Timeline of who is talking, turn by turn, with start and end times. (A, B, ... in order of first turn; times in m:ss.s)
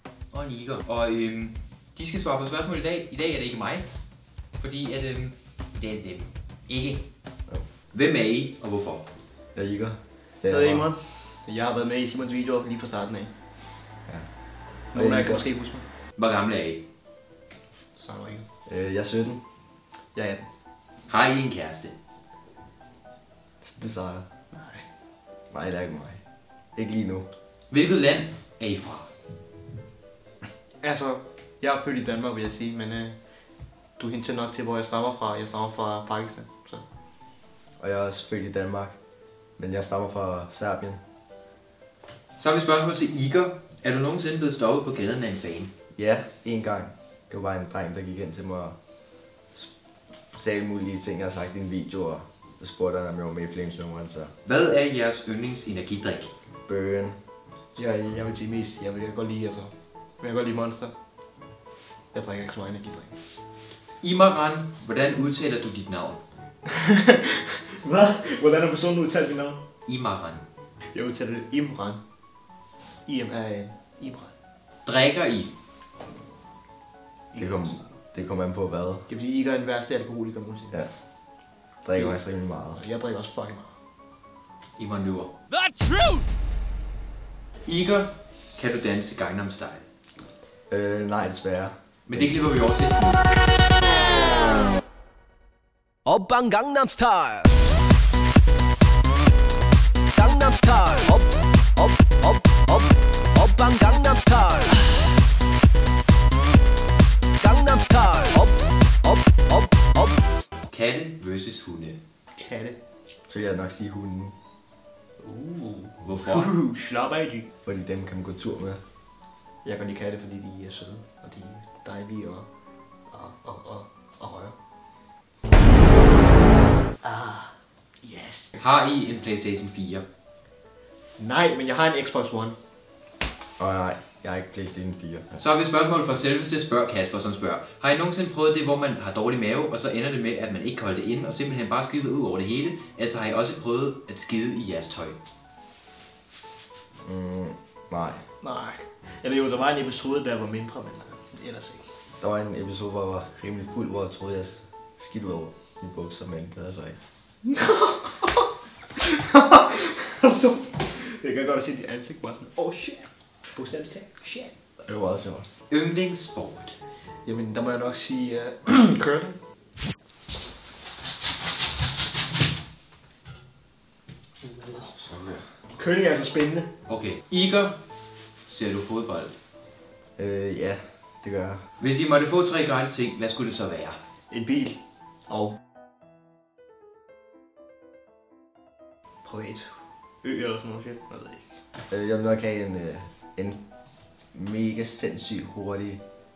0:00.3-0:03.9 A
0:04.6-0:07.0 A
0:07.9-0:09.0 A
0:09.5-0:10.9 B
0:10.4-0:13.3 C
0:14.9-0:15.8 C
0:14.9-0:15.4 B
0:16.2-0:16.8 A
0:17.9-0:18.5 C
0:18.7-0:19.4 B
0:20.1-0:20.5 C
0:21.1-0:21.9 A
0:23.6-0:24.3 B
0:24.5-0:24.9 C
0:25.5-0:26.2 B
0:26.8-0:27.3 B
0:27.7-0:29.1 A
0:30.8-0:33.2 C
0:34.0-0:36.8 C
0:37.8-0:39.0 B
0:39.6-0:41.0 B
0:42.4-0:45.7 A
0:45.9-0:48.8 B
0:50.3-0:54.3 B
0:54.4-0:56.3 A
0:56.7-0:57.2 B
0:57.7-1:00.9 C
1:02.1-1:03.4 C
1:04.0-1:06.2 A
1:06.8-1:09.6 C
1:09.8-1:10.4 A
1:10.8-1:12.0 C
1:13.0-1:14.3 C
1:14.8-1:15.5 A
1:17.3-1:17.7 C
1:17.4-1:19.1 B
1:19.1-1:20.8 C
1:21.8-1:22.8 B
1:22.7-1:23.7 C
1:24.8-1:25.3 A
1:27.6-1:29.8 A
1:30.7-1:32.3 B
1:32.0-1:33.3 A
1:36.0-1:37.5 D
1:40.1-1:44.8 D
1:47.4-1:50.2 D
1:50.6-1:52.0 A
1:52.4-1:52.8 C
1:53.3-1:54.3 B
1:55.2-1:57.4 C
1:56.0-1:56.5 A
1:57.6-1:58.8 B
1:59.6-2:02.5 C
2:03.1-2:04.6 C
2:07.0-2:08.5 C
2:08.6-2:10.0 A
2:11.2-2:12.6 C
2:13.6-2:15.4 B
2:15.4-2:25.2 A
2:27.0-2:28.2 B
2:28.4-2:31.9 C
2:32.2-2:37.0 B
2:37.4-2:38.3 C
2:39.1-2:44.6 C
2:44.8-2:45.4 B
2:45.7-2:46.8 A
2:47.2-2:49.4 C
2:54.6-2:55.4 B
2:55.7-2:56.7 C
2:56.9-2:57.8 A
2:58.4-2:59.3 A
3:00.2-3:01.6 B
3:01.8-3:04.0 A
3:04.3-3:05.6 C
3:09.2-3:11.4 C
3:11.9-3:13.6 B
3:14.3-3:16.0 B